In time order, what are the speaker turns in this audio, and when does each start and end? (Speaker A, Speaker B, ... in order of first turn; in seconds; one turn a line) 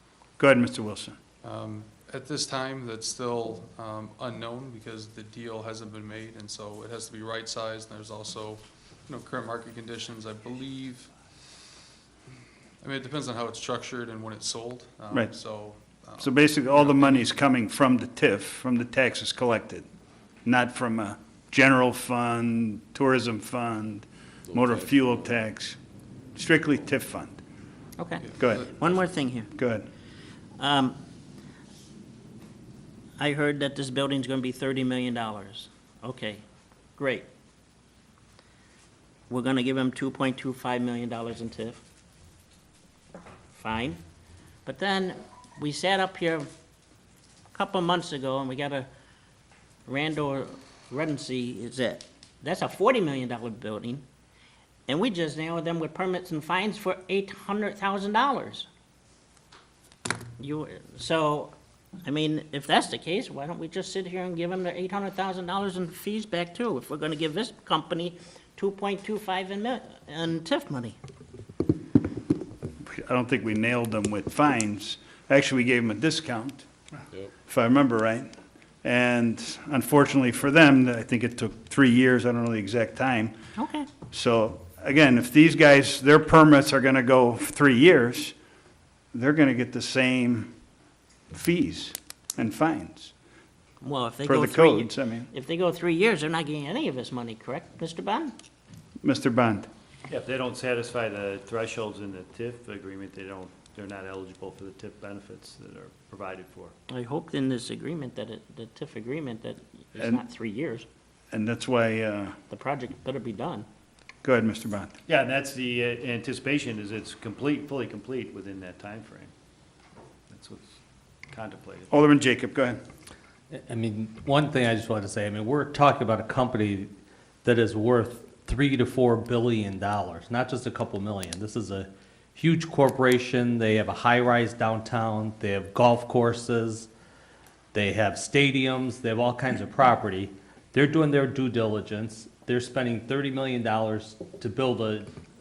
Speaker A: 0.4-1.1
Speaker B: 1.4-11.1
Speaker B: 12.8-17.3
Speaker A: 16.2-19.9
Speaker A: 20.4-25.8
Speaker C: 24.5-24.8
Speaker A: 26.4-27.4
Speaker D: 28.0-29.5
Speaker B: 28.2-28.6
Speaker A: 28.4-28.7
Speaker A: 29.5-29.8
Speaker D: 30.6-31.0
Speaker D: 33.2-36.4
Speaker D: 37.0-37.3
Speaker D: 39.3-41.8
Speaker D: 43.5-44.0
Speaker D: 44.6-46.5
Speaker D: 47.5-48.9
Speaker D: 49.9-54.0
Speaker D: 54.9-58.7
Speaker D: 60.4-61.5
Speaker D: 62.0-71.0
Speaker A: 72.8-76.7
Speaker A: 77.4-78.3
Speaker A: 78.8-83.3
Speaker D: 83.5-83.9
Speaker A: 84.1-88.3
Speaker A: 89.1-90.5
Speaker A: 91.3-93.1
Speaker D: 93.8-98.3
Speaker A: 94.2-95.3
Speaker A: 99.0-99.7
Speaker C: 100.1-106.7
Speaker D: 106.9-110.8
Speaker A: 110.0-110.2
Speaker A: 111.3-112.3
Speaker D: 112.5-113.7
Speaker A: 114.2-115.0
Speaker C: 115.0-119.3
Speaker C: 120.3-120.8
Speaker C: 121.3-121.9
Speaker A: 121.9-122.8
Speaker E: 123.5-126.9
Speaker E: 127.4-136.9
Speaker E: 137.7-145.1